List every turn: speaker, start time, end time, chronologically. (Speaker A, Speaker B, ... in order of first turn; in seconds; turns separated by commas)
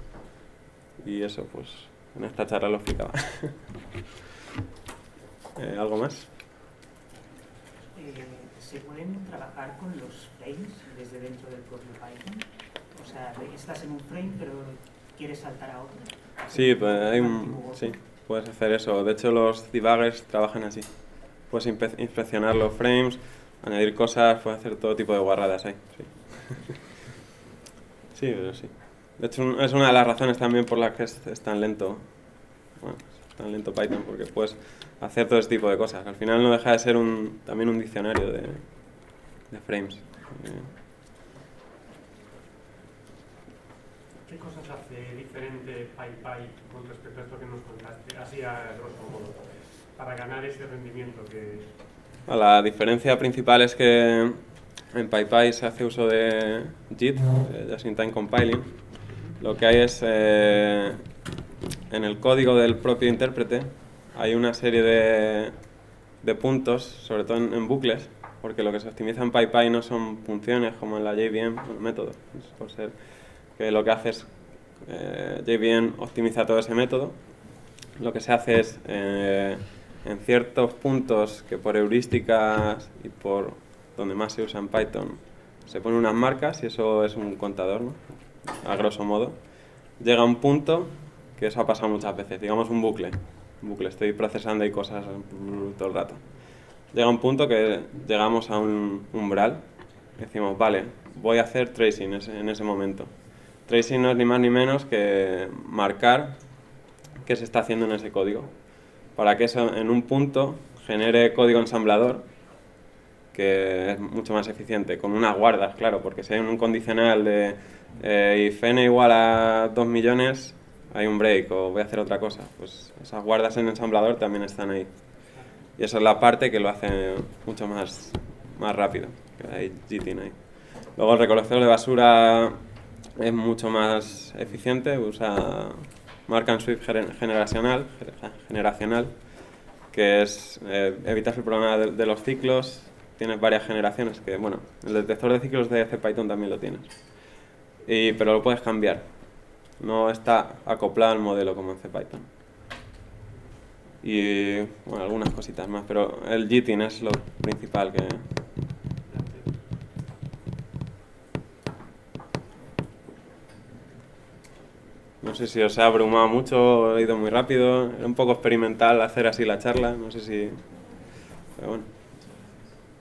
Speaker A: 1.0-3.6, Speaker A: 5.6-6.3, Speaker B: 7.9-17.9, Speaker A: 16.5-20.9, Speaker A: 21.5-26.8, Speaker A: 28.1-32.1, Speaker A: 32.8-38.6, Speaker A: 39.5-40.7, Speaker C: 44.3-51.7, Speaker A: 52.3-58.7, Speaker A: 59.4-61.0, Speaker A: 61.9-65.6, Speaker A: 66.2-73.0, Speaker A: 73.5-77.2, Speaker A: 78.0-89.4, Speaker A: 90.0-96.2, Speaker A: 96.9-99.6, Speaker A: 100.2-103.1, Speaker A: 103.7-106.4, Speaker A: 107.2-108.5, Speaker A: 109.2-112.3, Speaker A: 113.3-124.9, Speaker A: 125.8-130.4, Speaker A: 131.0-132.6, Speaker A: 133.2-139.1, Speaker A: 139.9-146.9, Speaker A: 147.8-149.1, Speaker A: 149.8-152.3, Speaker A: 154.0-158.2, Speaker C: 159.1-159.5, Speaker A: 165.2-170.6, Speaker A: 171.6-171.9